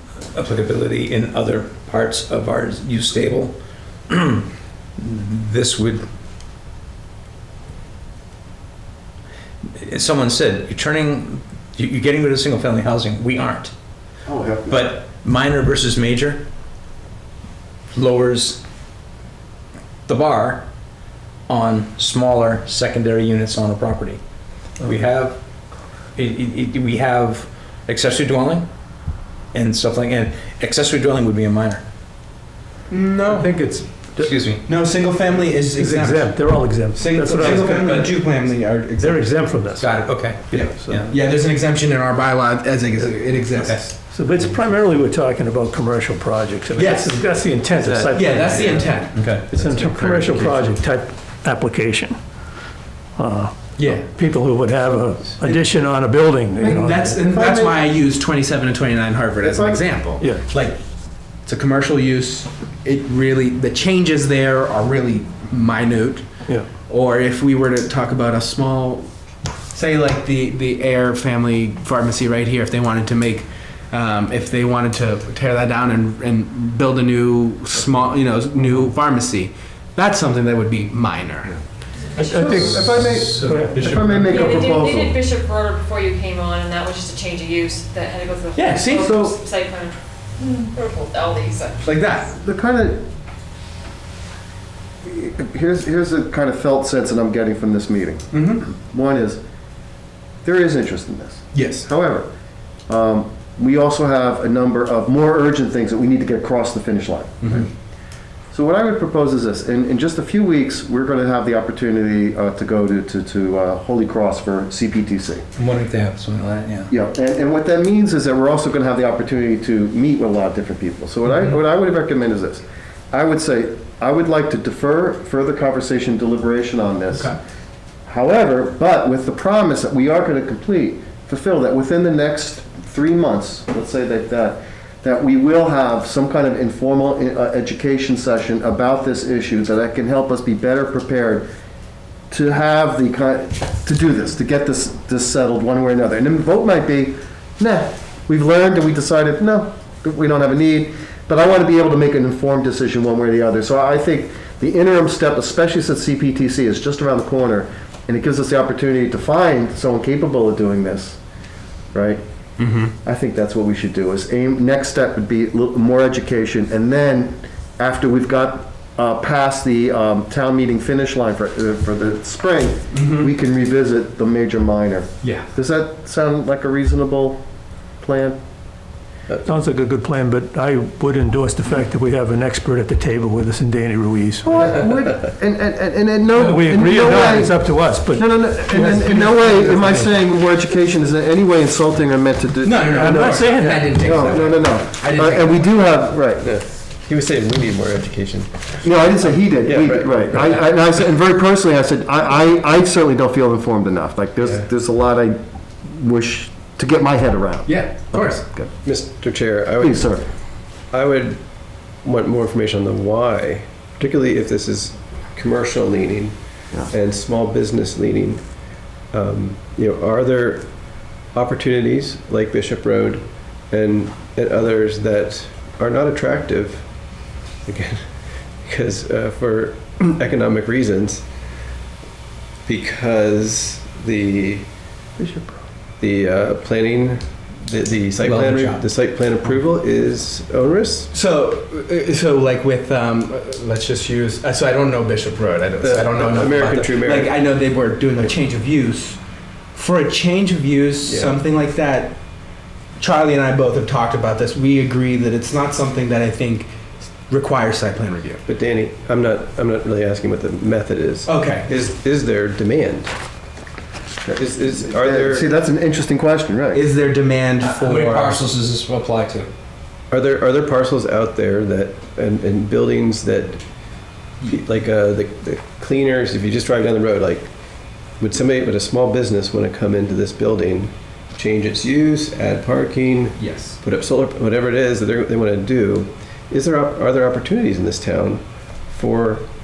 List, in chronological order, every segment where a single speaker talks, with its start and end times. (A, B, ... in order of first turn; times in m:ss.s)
0:00.3-0:03.6 A
0:04.1-0:04.5 A
0:05.0-0:06.0 A
0:09.8-0:13.7 A
0:14.3-0:14.9 B
0:14.7-0:16.4 A
0:17.9-0:18.6 A
0:20.1-0:20.6 A
0:21.5-0:24.2 A
0:24.8-0:25.4 A
0:26.2-0:28.7 A
0:29.5-0:31.8 A
0:32.9-0:33.5 C
0:33.3-0:34.6 A
0:34.6-0:39.5 C
0:35.8-0:38.1 D
0:37.4-0:38.1 A
0:39.0-0:41.0 D
0:39.8-0:41.1 A
0:40.5-0:44.0 C
0:43.6-0:43.8 A
0:44.1-0:52.2 D
0:46.8-0:47.2 C
0:47.8-0:48.1 E
0:48.1-0:49.2 C
0:49.1-0:49.5 A
0:49.5-0:50.6 E
0:53.2-0:57.2 D
0:53.8-0:54.1 C
0:56.6-0:57.8 B
0:56.7-1:00.8 C
0:59.4-0:59.9 B
1:01.5-1:06.3 C
1:06.9-1:09.1 C
1:09.7-1:21.6 C
1:22.2-1:22.9 D
1:22.2-1:25.2 B
1:22.5-1:24.4 A
1:23.5-1:23.8 D
1:24.3-1:31.9 F
1:28.6-1:29.4 C
1:31.8-1:32.3 C
1:32.4-1:33.0 B
1:35.0-1:39.4 B
1:38.3-1:38.7 C
1:40.4-1:42.3 B
1:41.5-1:41.9 C
1:42.9-1:47.7 B
1:47.4-1:47.7 C
1:48.5-1:55.4 B
1:55.6-1:56.9 A
1:56.9-2:07.4 B
2:08.1-2:21.5 B
2:22.3-2:41.2 B
2:41.9-2:42.2 B
2:42.6-2:42.9 C
2:43.0-2:57.4 B
2:52.9-2:53.3 C
2:55.2-2:55.5 C
2:58.0-2:58.4 B
2:59.4-3:04.7 D
3:04.4-3:16.5 B
3:06.4-3:10.2 D
3:12.6-3:15.7 C
3:12.9-3:14.1 D
3:16.4-3:18.6 E
3:18.8-3:28.7 B
3:19.5-3:20.6 E
3:27.7-3:28.4 C
3:28.8-3:30.2 E
3:29.8-3:30.2 B
3:30.9-3:31.4 E
3:32.0-3:36.4 E
3:36.9-3:38.4 E
3:39.1-3:40.7 E
3:41.3-3:46.9 E
3:47.7-3:48.0 E
3:48.6-3:51.2 E
3:52.6-3:54.7 E
3:55.2-3:55.5 D
3:56.0-4:01.1 E
3:58.2-3:58.8 A
4:01.1-4:09.2 C
4:05.8-4:07.3 E
4:09.7-4:12.2 C
4:11.1-4:11.4 E
4:13.0-4:16.7 C
4:17.3-4:18.4 C
4:18.5-4:23.1 E
4:21.3-4:21.7 C
4:24.2-4:26.8 B
4:24.4-4:25.5 E
4:26.7-4:28.4 C
4:27.6-4:29.5 A
4:30.1-4:33.6 E
4:34.4-4:37.5 E
4:38.2-4:49.5 E
4:43.4-4:43.8 C